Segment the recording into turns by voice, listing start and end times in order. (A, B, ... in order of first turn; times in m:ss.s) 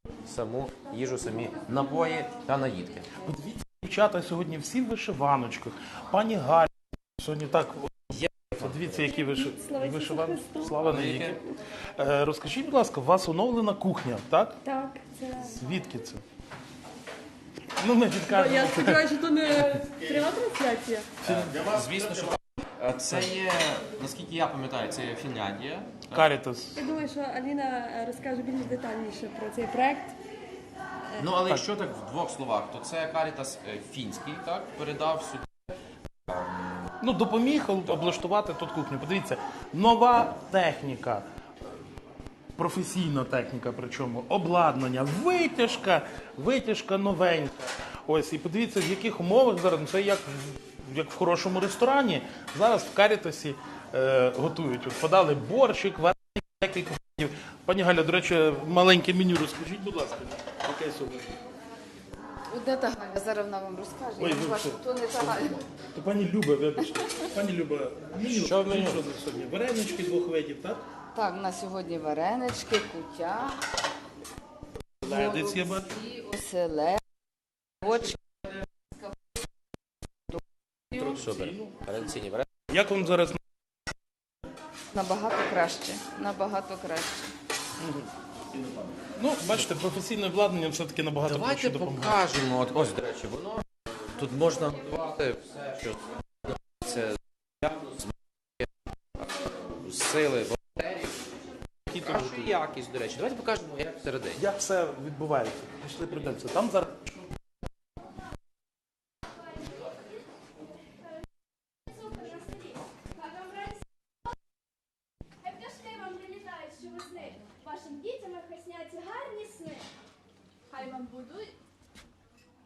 0:00.2-0:03.1 A
0:03.2-0:11.4 B
0:08.1-0:09.0 A
0:09.1-0:10.8 C
0:10.8-0:11.4 A
0:12.0-0:14.6 B
0:14.6-0:15.6 C
0:15.4-0:16.2 B
0:17.8-0:19.1 B
0:18.3-0:21.1 C
0:21.2-0:21.7 B
0:21.2-0:26.3 A
0:26.1-0:26.8 B
0:26.8-0:30.2 C
0:31.2-0:35.5 A
0:36.3-0:36.9 A
0:37.0-0:41.2 B
0:42.6-1:01.3 B
1:02.5-1:05.6 D
1:04.2-1:04.8 B
1:05.9-1:10.8 B
1:08.2-1:09.0 A
1:11.2-1:13.6 D
1:15.0-1:16.0 B
1:15.1-1:15.5 D
1:16.0-1:17.0 D
1:17.8-1:18.2 D
1:20.9-1:21.7 B
1:21.0-1:22.5 A
1:22.7-1:23.4 B
1:24.9-1:27.3 D
1:27.8-1:28.1 B
1:29.2-1:32.2 B
1:31.2-1:41.2 A
1:41.9-1:42.4 B
1:41.9-1:44.4 A
1:44.4-1:47.2 B
1:51.9-1:53.8 E
1:55.4-1:59.9 E
2:00.7-2:01.6 E